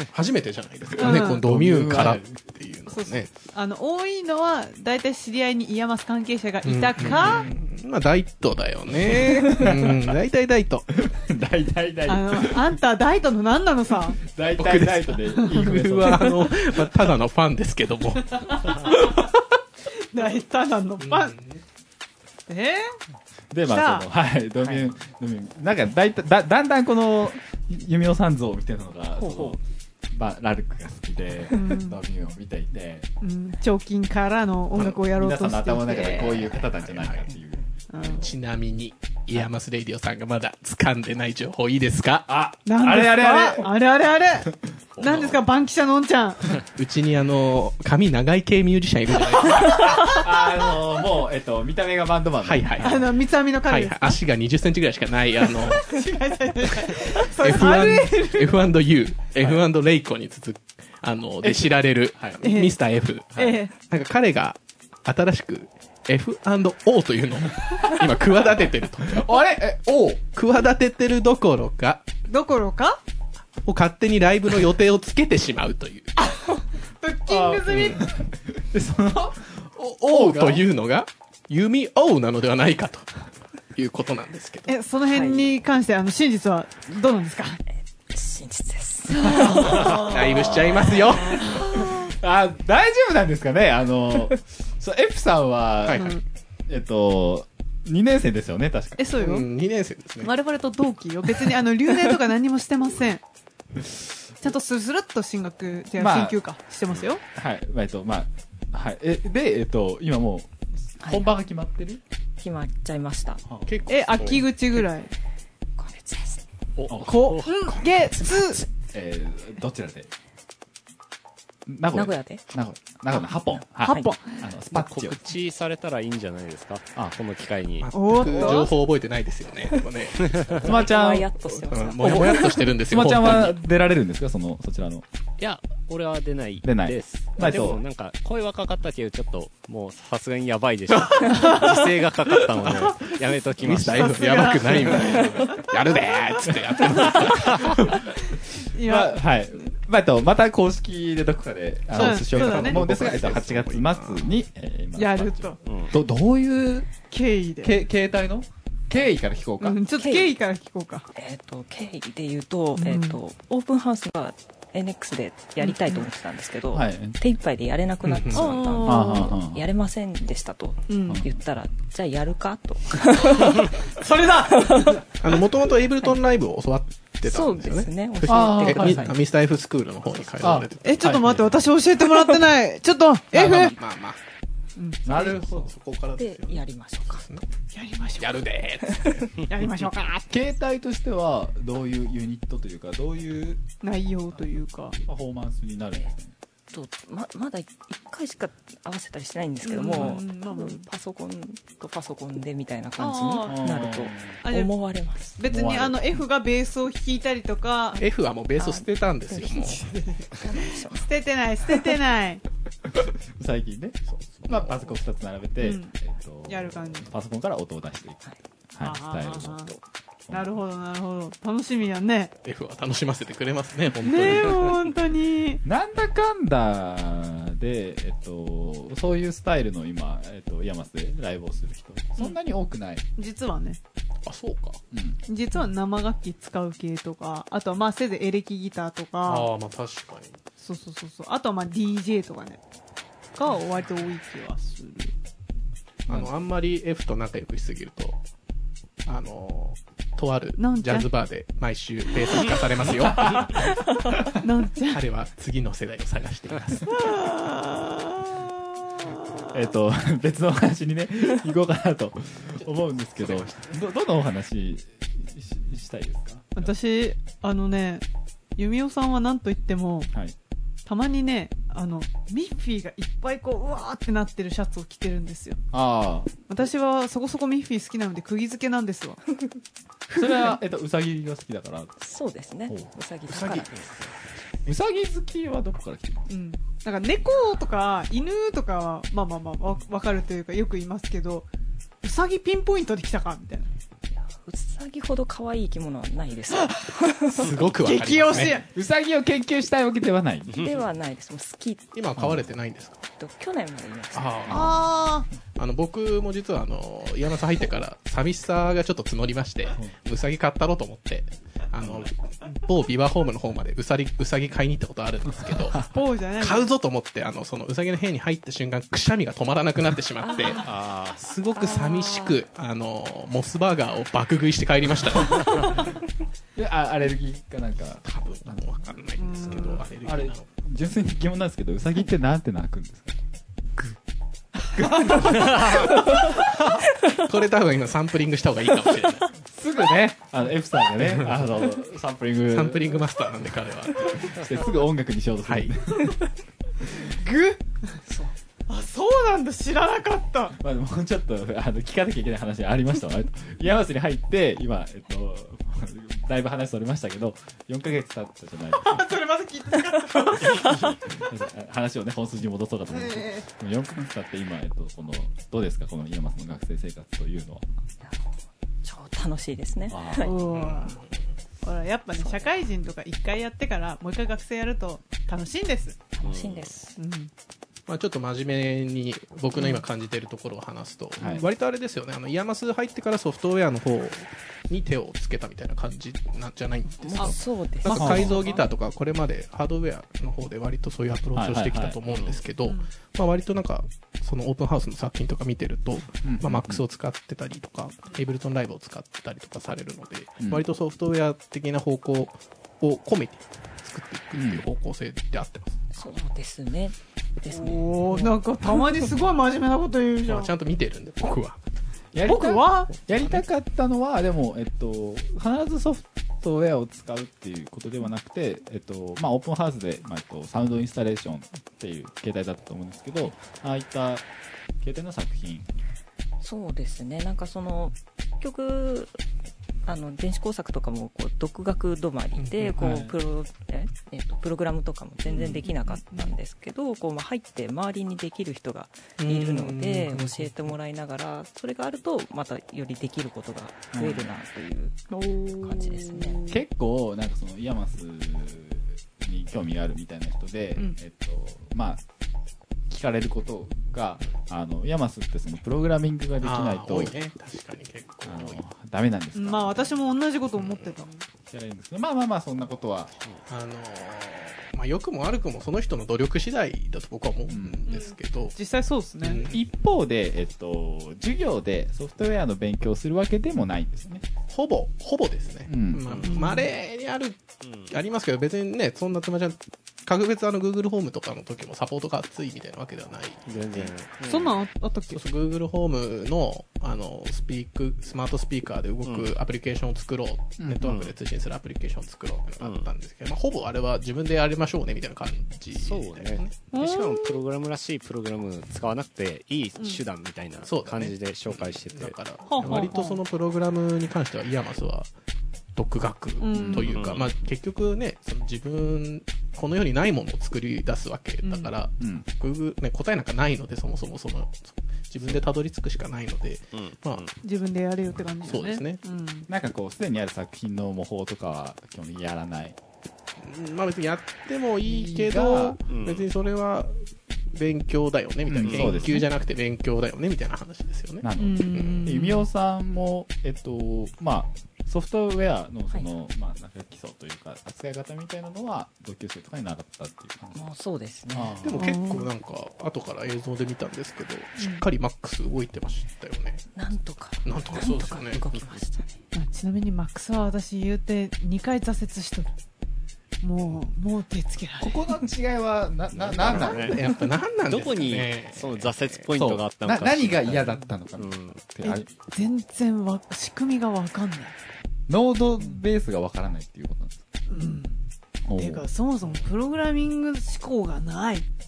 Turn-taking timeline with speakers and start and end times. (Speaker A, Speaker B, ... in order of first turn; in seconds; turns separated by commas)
Speaker A: 0.1-3.3, Speaker B: 0.9-2.3, Speaker C: 1.0-1.4, Speaker C: 2.9-7.5, Speaker A: 6.6-10.9, Speaker B: 7.0-7.4, Speaker B: 9.1-10.2, Speaker B: 11.0-12.8, Speaker C: 12.1-14.2, Speaker B: 14.2-16.3, Speaker A: 14.6-18.4, Speaker C: 18.4-19.2, Speaker C: 20.1-21.3, Speaker A: 21.0-21.6, Speaker C: 22.5-22.9, Speaker B: 23.5-29.6, Speaker C: 23.7-24.0, Speaker B: 30.1-33.1, Speaker C: 31.5-32.0, Speaker C: 33.2-36.5, Speaker B: 34.7-38.3, Speaker A: 36.6-37.3, Speaker C: 37.9-38.3, Speaker A: 38.0-42.3, Speaker B: 42.3-43.7, Speaker C: 42.6-46.6, Speaker A: 45.0-45.4, Speaker A: 46.7-49.9, Speaker C: 49.7-50.5, Speaker B: 49.7-53.0, Speaker A: 52.4-56.0, Speaker C: 52.8-54.2, Speaker C: 55.7-58.6, Speaker A: 56.7-69.3, Speaker C: 62.4-62.7, Speaker C: 63.4-63.7, Speaker B: 69.1-70.2, Speaker A: 70.3-72.0, Speaker C: 72.3-73.0, Speaker A: 73.7-76.3, Speaker C: 76.2-78.2, Speaker B: 77.3-80.6, Speaker A: 77.7-78.0, Speaker A: 80.0-83.1, Speaker A: 83.7-84.7, Speaker C: 84.7-87.6, Speaker D: 85.1-85.5, Speaker D: 88.1-90.1, Speaker C: 89.1-90.7, Speaker B: 89.4-90.2, Speaker A: 89.7-91.6, Speaker C: 91.3-92.1, Speaker B: 91.7-99.1, Speaker A: 95.8-96.1, Speaker C: 95.9-96.2, Speaker C: 99.0-99.5, Speaker A: 99.1-100.3, Speaker C: 100.2-103.2, Speaker C: 104.4-107.2, Speaker B: 106.0-106.4, Speaker B: 107.3-112.0, Speaker D: 111.0-111.3, Speaker D: 112.4-113.4, Speaker A: 113.7-114.8, Speaker C: 113.9-115.1, Speaker D: 115.8-116.4, Speaker E: 116.8-117.7, Speaker B: 116.9-117.3, Speaker C: 117.0-118.6, Speaker B: 118.9-120.1, Speaker B: 121.7-125.2, Speaker D: 121.9-122.4, Speaker D: 123.1-124.1, Speaker C: 123.8-124.4, Speaker E: 124.7-127.9, Speaker A: 127.8-130.8, Speaker C: 127.9-128.7, Speaker B: 130.6-131.3, Speaker D: 130.6-132.6, Speaker A: 131.7-133.5, Speaker B: 132.0-135.0, Speaker E: 135.4-144.9, Speaker B: 136.6-137.8, Speaker C: 141.3-141.7, Speaker A: 142.6-148.0, Speaker C: 144.0-145.7, Speaker B: 146.5-147.3, Speaker C: 148.2-149.2, Speaker B: 148.8-156.9, Speaker A: 151.9-154.3, Speaker C: 151.9-152.8, Speaker C: 155.0-155.6, Speaker E: 155.7-155.9, Speaker C: 157.1-157.8, Speaker B: 157.6-159.8, Speaker C: 159.6-161.1, Speaker D: 159.9-160.3, Speaker D: 161.1-173.7, Speaker C: 162.8-163.2, Speaker C: 165.6-166.0, Speaker B: 166.7-167.2, Speaker A: 168.0-168.5, Speaker C: 168.3-169.3, Speaker B: 168.8-169.6, Speaker C: 170.9-171.2, Speaker C: 173.3-175.0, Speaker D: 174.6-175.0, Speaker A: 175.2-181.3, Speaker D: 177.2-179.2, Speaker B: 178.3-179.1, Speaker B: 180.4-181.4, Speaker C: 180.8-183.7, Speaker A: 183.3-184.2, Speaker B: 185.0-185.7, Speaker A: 185.0-187.4, Speaker D: 186.2-187.2, Speaker C: 187.7-188.4, Speaker A: 188.2-189.4, Speaker C: 189.5-190.3, Speaker B: 190.3-193.6, Speaker C: 193.8-195.0, Speaker B: 195.0-196.3, Speaker D: 196.7-205.4, Speaker C: 199.6-200.8, Speaker C: 203.0-203.7, Speaker B: 203.5-204.4, Speaker C: 204.4-204.7, Speaker C: 205.4-208.0, Speaker B: 205.4-206.1, Speaker A: 208.0-209.8, Speaker D: 208.6-209.8, Speaker C: 209.5-212.4, Speaker D: 210.3-211.1, Speaker B: 212.9-220.6, Speaker A: 214.1-214.8, Speaker C: 215.6-215.9, Speaker C: 216.5-217.1, Speaker C: 218.8-219.7, Speaker C: 220.3-222.3, Speaker A: 222.4-224.8, Speaker C: 224.0-225.6, Speaker B: 225.6-233.0, Speaker C: 233.2-233.8, Speaker A: 234.2-234.8, Speaker B: 234.9-235.2, Speaker C: 235.3-239.5, Speaker A: 239.2-240.4, Speaker C: 240.6-242.6, Speaker C: 243.3-245.1, Speaker A: 246.1-248.2, Speaker A: 249.1-253.6, Speaker C: 250.6-251.1, Speaker B: 253.0-253.5, Speaker C: 254.4-255.0, Speaker A: 254.8-257.1, Speaker C: 256.9-259.5, Speaker B: 259.5-266.7, Speaker A: 262.6-263.8, Speaker C: 266.6-268.0, Speaker C: 268.6-270.1, Speaker C: 270.9-275.6, Speaker B: 275.7-276.3, Speaker C: 276.5-279.2, Speaker B: 280.1-281.9, Speaker C: 280.1-280.6, Speaker D: 282.0-283.7, Speaker A: 283.3-284.1, Speaker B: 284.6-286.3, Speaker C: 286.3-291.5, Speaker C: 292.0-293.7, Speaker D: 294.1-297.5, Speaker A: 297.3-298.6, Speaker C: 297.8-298.7, Speaker B: 298.7-300.6, Speaker D: 300.6-301.9, Speaker A: 301.9-303.0, Speaker B: 302.2-302.4, Speaker D: 303.1-304.5, Speaker A: 304.1-304.9, Speaker B: 304.4-304.9, Speaker C: 304.5-305.3, Speaker A: 305.5-325.6, Speaker C: 315.9-316.7, Speaker D: 320.2-320.6, Speaker E: 320.6-321.1, Speaker D: 321.6-322.3, Speaker B: 326.5-328.9, Speaker A: 328.0-330.5, Speaker C: 329.2-329.8, Speaker B: 330.0-333.2, Speaker B: 334.6-336.1, Speaker A: 337.1-339.3, Speaker B: 339.5-343.0, Speaker A: 342.5-344.3, Speaker B: 344.0-346.1, Speaker A: 345.4-345.7, Speaker C: 347.0-347.7, Speaker D: 348.1-348.3, Speaker C: 348.7-350.6, Speaker B: 350.6-359.1, Speaker C: 358.8-360.7, Speaker B: 360.4-367.6, Speaker C: 362.9-363.4, Speaker D: 368.0-368.3, Speaker D: 368.8-370.4, Speaker B: 369.9-370.4, Speaker C: 370.2-371.0, Speaker A: 370.5-371.1, Speaker C: 371.6-376.0, Speaker D: 372.1-372.6, Speaker D: 376.1-377.0, Speaker E: 376.2-376.7, Speaker C: 377.0-377.3, Speaker A: 377.9-405.9, Speaker C: 379.6-379.8, Speaker B: 381.2-381.5, Speaker D: 387.0-388.6, Speaker C: 387.1-388.6, Speaker B: 387.9-388.4, Speaker B: 391.3-392.0, Speaker E: 392.1-392.4, Speaker B: 396.2-396.8, Speaker B: 404.3-404.6, Speaker D: 405.9-409.1, Speaker C: 407.5-410.5, Speaker A: 410.2-411.6, Speaker B: 412.1-424.2, Speaker C: 412.2-412.9, Speaker A: 413.1-413.4, Speaker B: 424.8-425.7, Speaker D: 426.4-429.2, Speaker D: 429.9-446.4, Speaker A: 432.4-433.1, Speaker C: 435.3-436.3, Speaker A: 439.2-440.5, Speaker B: 443.9-444.3, Speaker C: 445.1-446.6, Speaker B: 446.4-452.0, Speaker B: 452.9-457.1, Speaker A: 456.4-458.6, Speaker B: 458.2-460.0, Speaker C: 459.3-461.2, Speaker A: 460.6-460.9, Speaker B: 461.5-463.1, Speaker A: 463.5-468.6, Speaker B: 467.5-467.9, Speaker C: 467.9-469.4, Speaker A: 469.2-469.6, Speaker B: 469.5-474.2, Speaker A: 474.5-483.9, Speaker B: 475.6-476.1, Speaker E: 476.1-476.4, Speaker C: 476.3-476.7, Speaker E: 477.6-477.9, Speaker E: 483.4-484.6, Speaker C: 484.2-485.2, Speaker A: 485.1-496.5, Speaker E: 489.0-489.3, Speaker E: 490.8-491.1, Speaker E: 495.7-502.9, Speaker C: 496.7-497.4, Speaker A: 500.6-505.1, Speaker C: 502.5-503.2, Speaker A: 505.8-517.2, Speaker C: 506.4-507.0, Speaker B: 506.5-507.1, Speaker E: 506.8-507.3, Speaker C: 511.4-511.7, Speaker B: 512.0-512.2, Speaker E: 516.7-517.4, Speaker C: 517.4-519.5, Speaker A: 518.4-519.0, Speaker B: 519.5-522.8, Speaker A: 523.4-532.1, Speaker B: 524.8-525.8, Speaker E: 525.9-526.2, Speaker B: 528.5-529.2, Speaker E: 528.6-529.1, Speaker B: 531.2-540.6, Speaker C: 531.4-532.5, Speaker D: 540.5-541.6, Speaker B: 541.3-542.0, Speaker A: 541.6-546.7, Speaker C: 541.8-542.3, Speaker C: 544.6-544.8, Speaker D: 546.7-549.2, Speaker A: 547.4-548.6, Speaker C: 549.3-552.5, Speaker C: 553.4-555.1, Speaker B: 554.8-556.9, Speaker E: 556.1-557.0, Speaker A: 556.4-559.4, Speaker E: 557.6-561.7, Speaker B: 559.4-562.1, Speaker C: 561.8-564.5, Speaker B: 565.1-567.2, Speaker C: 567.5-568.0, Speaker B: 568.5-568.9, Speaker C: 568.5-571.5, Speaker A: 569.2-569.5